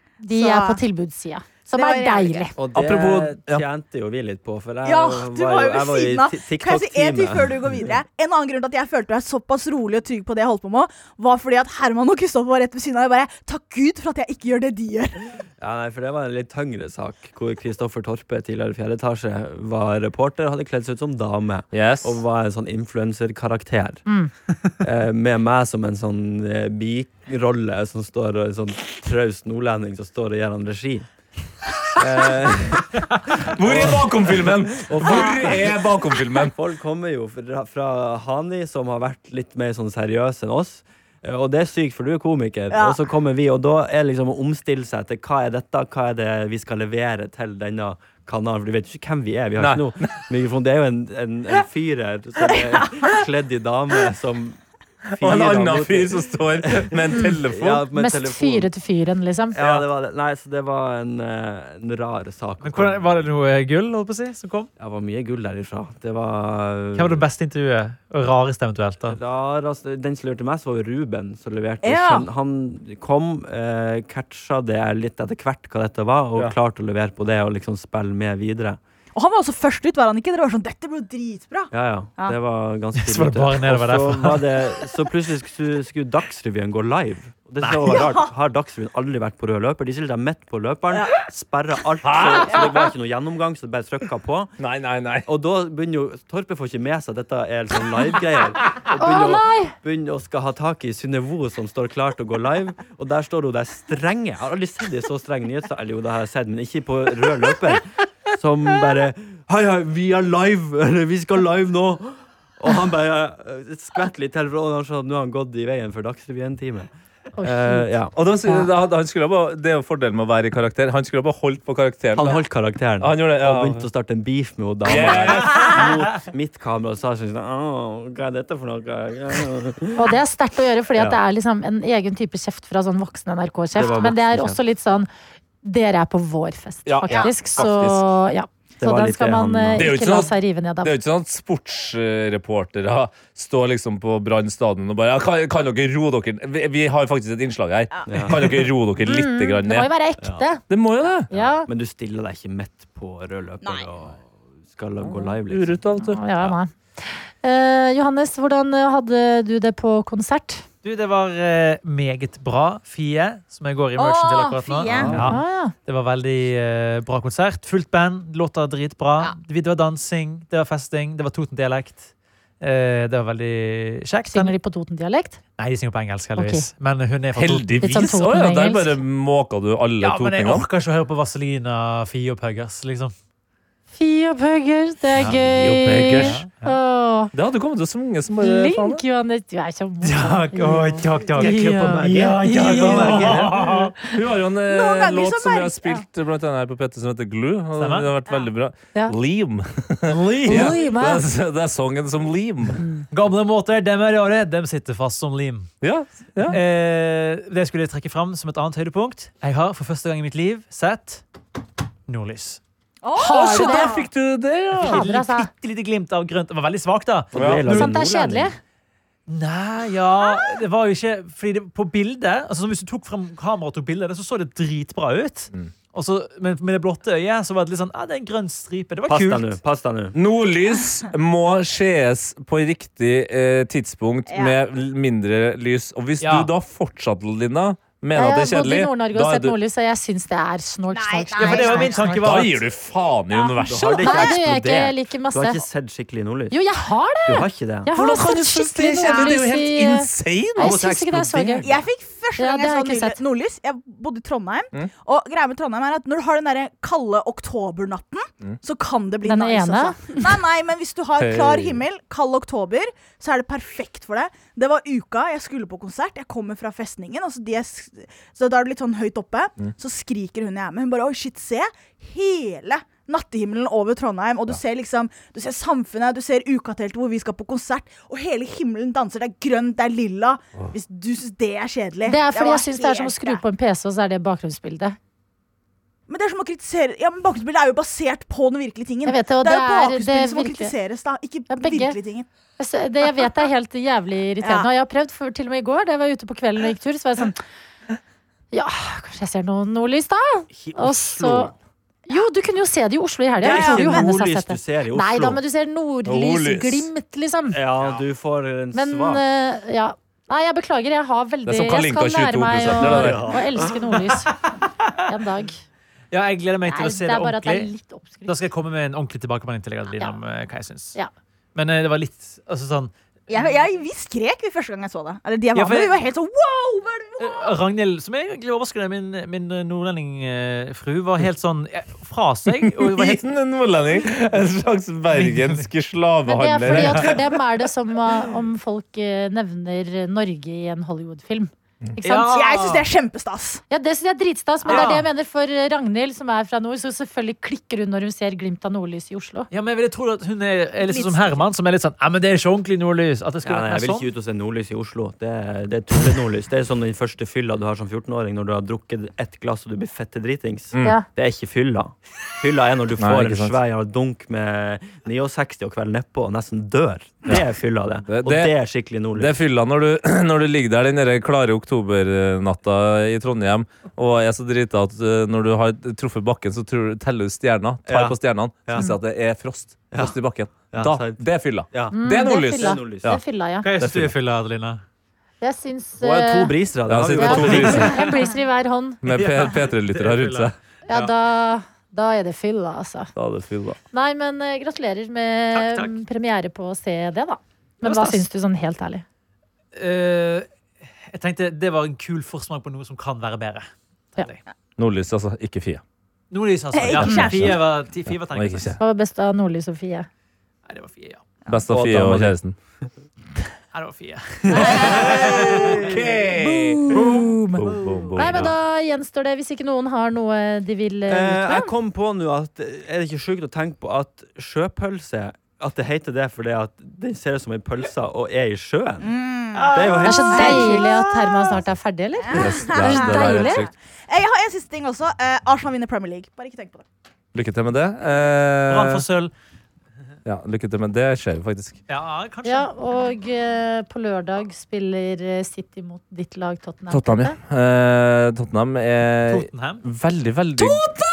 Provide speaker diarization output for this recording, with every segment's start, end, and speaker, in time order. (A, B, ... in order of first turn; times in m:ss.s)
0:00.2-0:02.5 A
0:00.3-0:00.8 B
0:01.7-0:02.5 B
0:02.6-0:08.0 C
0:02.7-0:03.6 D
0:04.8-0:15.3 B
0:15.6-0:24.1 C
0:21.7-0:22.2 D
0:24.1-0:24.3 A
0:24.8-0:31.1 C
0:32.0-0:35.9 C
0:33.5-0:36.6 D
0:35.0-0:35.6 B
0:36.5-0:54.6 C
0:42.7-0:43.0 B
0:49.6-0:50.3 D
0:52.5-0:53.2 B
0:55.2-0:57.9 D
0:55.2-0:58.7 C
0:57.1-0:57.4 A
0:57.9-0:59.6 A
0:59.5-1:03.1 C
0:59.6-0:59.8 D
1:02.6-1:04.7 E
1:04.8-1:07.2 C
1:07.0-1:09.2 E
1:09.1-1:18.8 C
1:11.8-1:12.3 B
1:19.2-1:22.4 B
1:21.7-1:34.5 C
1:23.0-1:24.7 E
1:27.6-1:28.1 E
1:27.8-1:28.3 B
1:30.9-1:31.3 B
1:32.0-1:32.9 D
1:34.6-1:35.3 D
1:35.3-1:56.9 C
1:39.0-1:39.7 A
1:57.4-1:57.9 A
1:57.4-1:58.1 C
1:58.2-2:02.5 D
1:58.4-1:58.7 A
2:02.1-2:10.2 C
2:03.0-2:03.9 D
2:04.8-2:05.9 D
2:10.0-2:15.1 A
2:10.9-2:11.2 C
2:13.8-2:14.6 C
2:15.6-2:21.0 A
2:16.8-2:18.1 D
2:18.8-2:19.9 C
2:19.8-2:29.9 D
2:27.9-2:28.3 B
2:28.1-2:28.7 C
2:29.0-2:30.6 A
2:30.7-2:31.3 D
2:31.3-2:31.7 A
2:31.3-2:35.8 C
2:33.6-2:33.9 B
2:35.0-2:36.6 D
2:36.0-2:40.6 A
2:40.8-2:54.6 E
2:44.0-2:45.1 B
2:44.9-2:45.4 C
2:44.9-2:45.2 D
2:45.2-2:45.7 A
2:54.3-2:55.4 A
2:55.6-2:58.1 E
2:56.4-2:56.7 A
2:57.4-3:00.7 D
2:57.8-2:59.0 A
3:00.0-3:03.1 E
3:04.0-3:07.3 A
3:05.2-3:06.4 D
3:06.1-3:06.8 E
3:07.3-3:09.0 D
3:08.4-3:13.3 A
3:10.0-3:14.0 E
3:11.4-3:13.7 C
3:12.5-3:22.8 D
3:14.7-3:16.0 B
3:17.8-3:18.1 E
3:20.1-3:20.8 E
3:20.4-3:21.2 A
3:22.8-3:23.1 A
3:23.1-3:25.7 E
3:25.8-3:26.6 D
3:26.5-3:31.2 E
3:32.1-3:32.6 E
3:33.0-3:34.0 B
3:33.2-3:34.0 A
3:33.3-3:35.0 D
3:34.8-3:37.3 E
3:34.8-3:35.5 A
3:37.3-3:38.5 C
3:37.3-3:38.0 D
3:37.6-3:38.6 A
3:39.3-3:49.6 E
3:49.1-3:50.2 C
3:50.1-3:59.6 D
3:54.3-3:54.6 B
3:56.2-3:56.5 E
3:58.1-4:02.2 A
4:00.9-4:02.3 B
4:01.4-4:02.6 E
4:02.2-4:04.2 D
4:03.3-4:04.4 B
4:03.6-4:06.6 C
4:04.0-4:05.6 A
4:06.5-4:11.8 A
4:07.3-4:07.9 C
4:07.9-4:11.7 D
4:09.0-4:09.4 B
4:10.6-4:11.6 C
4:11.6-4:43.4 B
4:12.4-4:13.2 A
4:19.2-4:20.3 A
4:21.2-4:21.8 D
4:42.1-4:45.0 A
4:46.1-4:52.3 B
4:49.1-4:50.8 A
4:51.5-4:52.0 A
4:52.6-4:57.4 A
4:54.4-4:54.7 B
4:58.5-5:01.5 A
5:00.6-5:01.5 C
5:02.1-5:07.6 A
5:03.4-5:04.1 B
5:03.4-5:05.4 C
5:06.1-5:06.9 D
5:07.5-5:09.2 C
5:08.7-5:14.4 A
5:11.5-5:13.4 D
5:12.8-5:14.0 C
5:15.0-5:15.6 A
5:16.1-5:17.7 E
5:16.7-5:18.4 A
5:18.3-5:21.0 E
5:21.6-5:22.9 E
5:23.3-5:27.5 B
5:25.5-5:26.0 E
5:27.2-5:33.3 E
5:32.6-5:37.2 D
5:35.2-5:35.6 E
5:36.3-5:42.4 A
5:36.7-5:37.1 E
5:42.0-5:42.8 E
5:42.3-5:43.6 B
5:43.7-5:49.5 A
5:44.7-5:45.0 B
5:44.7-5:45.1 E
5:49.5-5:54.1 E
5:50.8-5:51.4 B
5:53.4-6:09.4 C
6:00.7-6:01.0 D
6:03.0-6:03.6 D
6:08.0-6:08.5 D
6:09.1-6:23.2 D
6:17.9-6:18.9 C
6:20.7-6:23.2 C
6:21.9-6:23.7 A
6:23.6-6:24.8 E
6:23.8-6:24.2 D
6:25.4-6:26.5 A
6:26.0-6:28.1 C
6:26.9-6:28.1 D
6:27.1-6:29.0 A
6:29.0-6:30.6 D
6:29.1-6:31.1 E
6:30.9-6:33.1 A
6:33.2-6:33.8 D
6:33.9-6:39.0 A
6:35.5-6:36.0 E
6:37.8-6:38.3 E
6:39.8-6:40.5 E
6:41.1-6:44.4 E
6:44.8-6:45.8 D
6:46.3-6:48.8 E
6:46.7-6:47.6 B
6:46.9-6:48.8 D
6:48.8-6:50.1 A
6:50.7-6:51.2 E
6:51.5-6:52.6 D
6:51.7-6:52.4 C
6:53.7-6:55.8 E
6:54.6-6:55.1 B
6:54.6-6:56.2 C
6:54.6-6:58.6 D
6:56.3-7:01.7 A
7:01.1-7:09.1 C
7:09.0-7:11.0 B
7:09.6-7:11.5 E
7:09.7-7:10.8 C
7:10.0-7:13.7 A
7:12.2-7:16.8 B
7:12.3-7:13.7 D
7:17.3-7:19.0 D
7:18.7-7:19.3 E
7:20.2-7:21.8 D
7:21.9-7:22.7 E
7:22.4-7:27.4 A
7:26.9-7:30.8 D
7:29.3-7:29.9 E